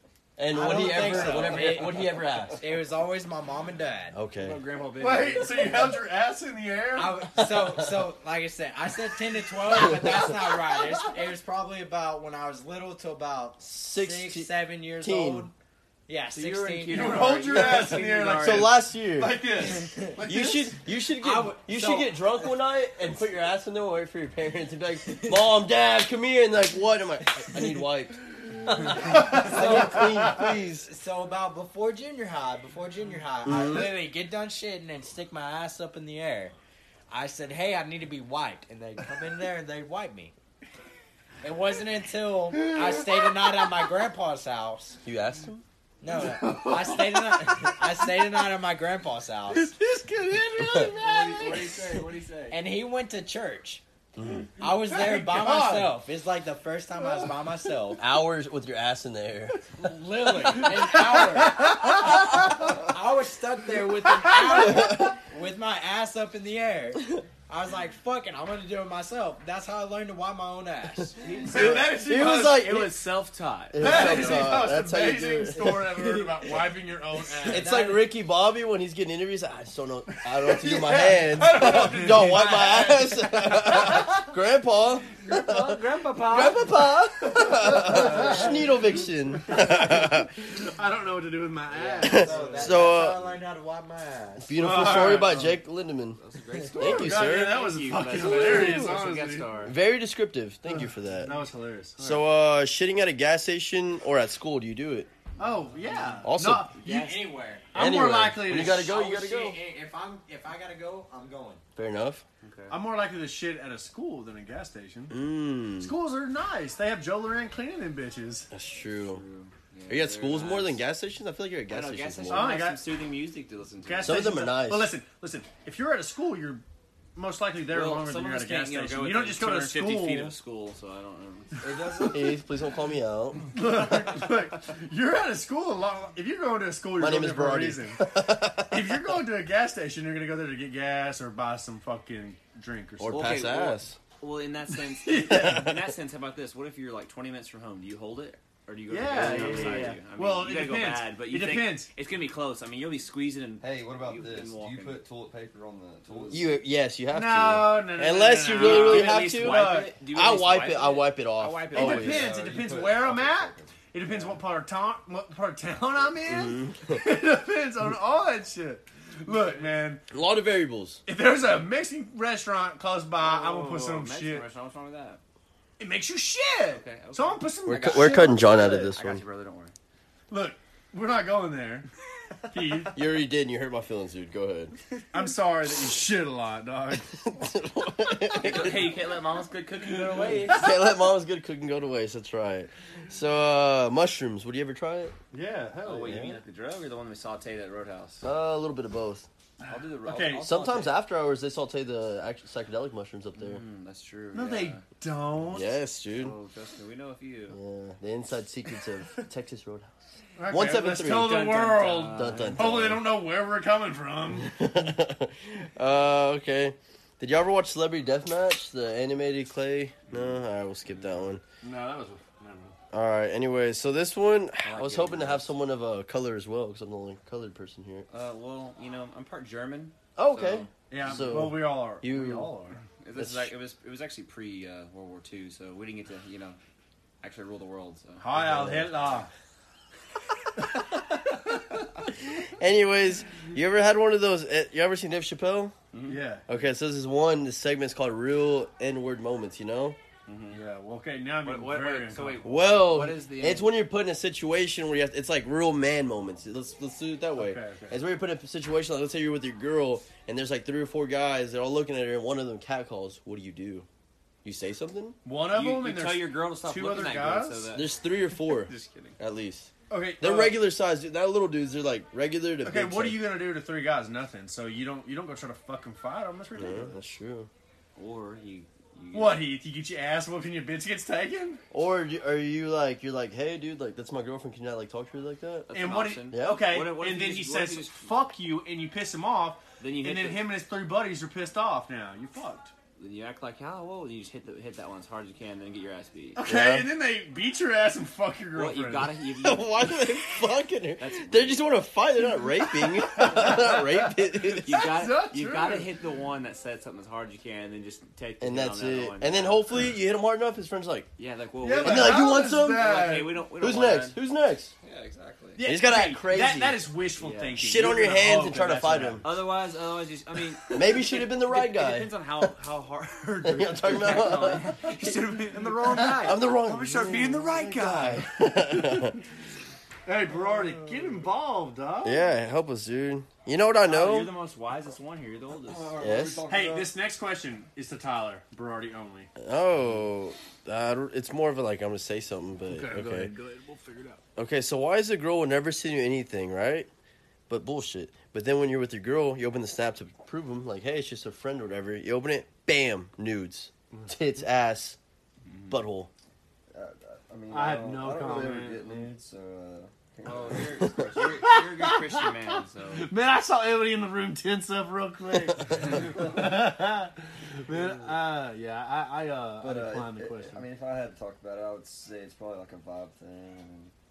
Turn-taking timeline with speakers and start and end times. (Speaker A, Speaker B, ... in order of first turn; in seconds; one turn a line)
Speaker A: 0.4-2.6
Speaker B: 0.5-4.2
Speaker C: 0.9-1.9
Speaker A: 4.1-4.6
Speaker C: 4.3-5.8
Speaker D: 5.0-7.7
Speaker B: 7.0-15.5
Speaker A: 13.6-15.5
Speaker B: 16.1-17.4
Speaker C: 16.3-18.8
Speaker D: 16.9-20.8
Speaker A: 17.5-19.4
Speaker B: 19.6-20.2
Speaker A: 20.2-28.2
Speaker B: 21.2-22.2
Speaker B: 28.7-36.5
Speaker A: 28.7-30.9
Speaker D: 28.8-30.5
Speaker A: 33.5-33.9
Speaker B: 37.1-40.3
Speaker B: 41.4-45.0
Speaker D: 42.5-43.6
Speaker A: 45.0-45.6
Speaker B: 46.0-49.7
Speaker D: 46.1-47.8
Speaker D: 49.5-52.0
Speaker A: 50.6-51.0
Speaker C: 51.0-52.6
Speaker B: 52.5-53.8
Speaker A: 54.2-54.5
Speaker D: 54.6-55.9
Speaker B: 54.6-58.0
Speaker D: 57.0-57.3
Speaker A: 58.0-59.6
Speaker B: 59.8-71.5
Speaker D: 60.4-62.7
Speaker D: 64.1-65.1
Speaker A: 64.6-65.1
Speaker C: 71.2-74.3
Speaker D: 71.4-72.6
Speaker A: 71.5-72.9
Speaker A: 73.7-75.8
Speaker D: 73.8-77.7
Speaker B: 77.4-78.1
Speaker A: 77.4-90.4
Speaker D: 80.2-84.1
Speaker C: 85.2-86.7
Speaker D: 87.3-88.5
Speaker D: 89.4-92.9
Speaker B: 91.7-94.7
Speaker A: 92.0-93.2
Speaker A: 94.4-96.2
Speaker D: 94.6-95.6
Speaker C: 96.2-99.7
Speaker D: 96.7-99.6
Speaker A: 96.7-97.6
Speaker A: 98.4-98.9
Speaker A: 99.6-101.3
Speaker D: 100.7-102.2
Speaker A: 102.0-105.1
Speaker D: 105.4-107.2
Speaker C: 105.7-106.2
Speaker A: 106.2-106.7
Speaker B: 106.8-107.7
Speaker D: 107.7-108.9
Speaker A: 107.7-109.6
Speaker B: 108.5-111.6
Speaker A: 111.8-112.2
Speaker C: 112.4-112.8
Speaker D: 112.7-115.2
Speaker A: 115.1-115.9
Speaker D: 115.8-118.5
Speaker A: 118.5-119.2
Speaker C: 119.0-120.8
Speaker A: 119.9-122.5
Speaker C: 121.7-124.3
Speaker D: 122.3-122.8
Speaker D: 123.8-126.6
Speaker A: 124.0-124.9
Speaker D: 127.2-130.3
Speaker C: 127.7-131.6
Speaker E: 131.6-132.4
Speaker A: 132.0-133.5
Speaker D: 133.5-143.3
Speaker A: 137.0-138.9
Speaker A: 143.0-144.0
Speaker C: 143.1-155.0
Speaker D: 145.0-145.7
Speaker A: 145.3-145.8
Speaker D: 148.9-151.9
Speaker A: 149.1-149.9
Speaker E: 153.6-156.6
Speaker C: 156.1-156.4
Speaker A: 156.3-162.3
Speaker D: 157.1-160.0
Speaker C: 158.5-162.3
Speaker D: 161.7-170.0
Speaker E: 162.0-163.8
Speaker C: 164.1-164.3
Speaker A: 166.2-167.0
Speaker A: 170.1-171.0
Speaker D: 171.1-174.4
Speaker C: 173.2-175.2
Speaker D: 175.8-178.6
Speaker C: 176.7-179.7
Speaker A: 177.7-179.2
Speaker D: 180.3-181.9
Speaker D: 182.5-182.9
Speaker A: 182.9-184.7
Speaker D: 185.1-187.2
Speaker A: 187.1-188.9
Speaker C: 188.3-190.6
Speaker D: 189.9-190.8
Speaker A: 190.5-195.2
Speaker D: 195.3-196.3
Speaker C: 195.8-198.2
Speaker A: 196.1-196.3
Speaker A: 198.2-199.3
Speaker D: 199.6-200.5
Speaker C: 199.7-200.9
Speaker A: 200.4-203.6
Speaker C: 203.3-204.8
Speaker D: 204.3-205.7
Speaker A: 205.5-206.3
Speaker C: 206.2-207.6
Speaker A: 207.5-209.9
Speaker D: 210.4-214.6
Speaker A: 210.5-211.5
Speaker C: 211.3-212.9
Speaker A: 212.1-213.0
Speaker A: 214.4-221.4
Speaker C: 220.9-221.2
Speaker D: 221.6-222.8
Speaker A: 222.9-228.1
Speaker C: 224.6-225.5
Speaker C: 228.1-231.5
Speaker A: 230.2-232.5
Speaker D: 230.9-232.8
Speaker C: 233.0-236.6
Speaker A: 233.2-233.5
Speaker C: 237.2-238.2
Speaker D: 238.2-239.3
Speaker A: 238.3-238.9
Speaker A: 242.2-245.7
Speaker C: 245.9-246.2
Speaker D: 246.1-246.5
Speaker A: 246.5-250.0
Speaker C: 250.3-250.6
Speaker D: 250.5-252.5
Speaker C: 251.4-253.7
Speaker A: 252.4-263.9
Speaker D: 257.4-258.0
Speaker A: 264.4-265.2
Speaker D: 265.2-267.7
Speaker C: 265.5-269.2
Speaker A: 267.7-273.2
Speaker D: 269.9-270.6
Speaker D: 272.6-276.9
Speaker A: 276.5-277.5
Speaker C: 277.9-279.4
Speaker D: 279.1-281.6
Speaker A: 281.7-285.7
Speaker C: 285.7-288.1
Speaker D: 285.7-292.7
Speaker A: 286.3-286.6
Speaker C: 289.8-290.5
Speaker C: 293.0-296.4
Speaker D: 296.4-299.1
Speaker A: 296.4-296.9
Speaker C: 298.5-300.2
Speaker A: 299.4-304.8
Speaker C: 301.0-301.6
Speaker D: 302.6-305.9
Speaker C: 304.6-309.6
Speaker A: 308.4-311.1
Speaker C: 311.2-314.2
Speaker D: 311.6-313.4
Speaker A: 311.8-312.9
Speaker A: 313.6-314.7
Speaker C: 314.8-315.6
Speaker D: 315.6-319.3
Speaker A: 315.6-316.8
Speaker C: 317.2-317.6
Speaker A: 317.6-319.2
Speaker C: 319.2-328.2
Speaker A: 320.7-322.1
Speaker A: 323.4-324.8
Speaker D: 325.4-329.2
Speaker A: 326.1-329.2
Speaker D: 330.1-332.3
Speaker E: 330.4-331.2
Speaker A: 332.0-334.3
Speaker C: 333.8-336.0
Speaker E: 335.6-337.0
Speaker A: 336.0-336.4
Speaker D: 336.5-339.3
Speaker A: 339.4-343.3
Speaker D: 342.7-344.2
Speaker A: 344.4-346.9
Speaker A: 347.5-355.0
Speaker C: 355.5-355.8
Speaker A: 355.7-356.1
Speaker E: 356.7-361.5
Speaker D: 357.5-359.1
Speaker C: 360.2-363.1
Speaker D: 361.4-370.6
Speaker E: 369.6-373.9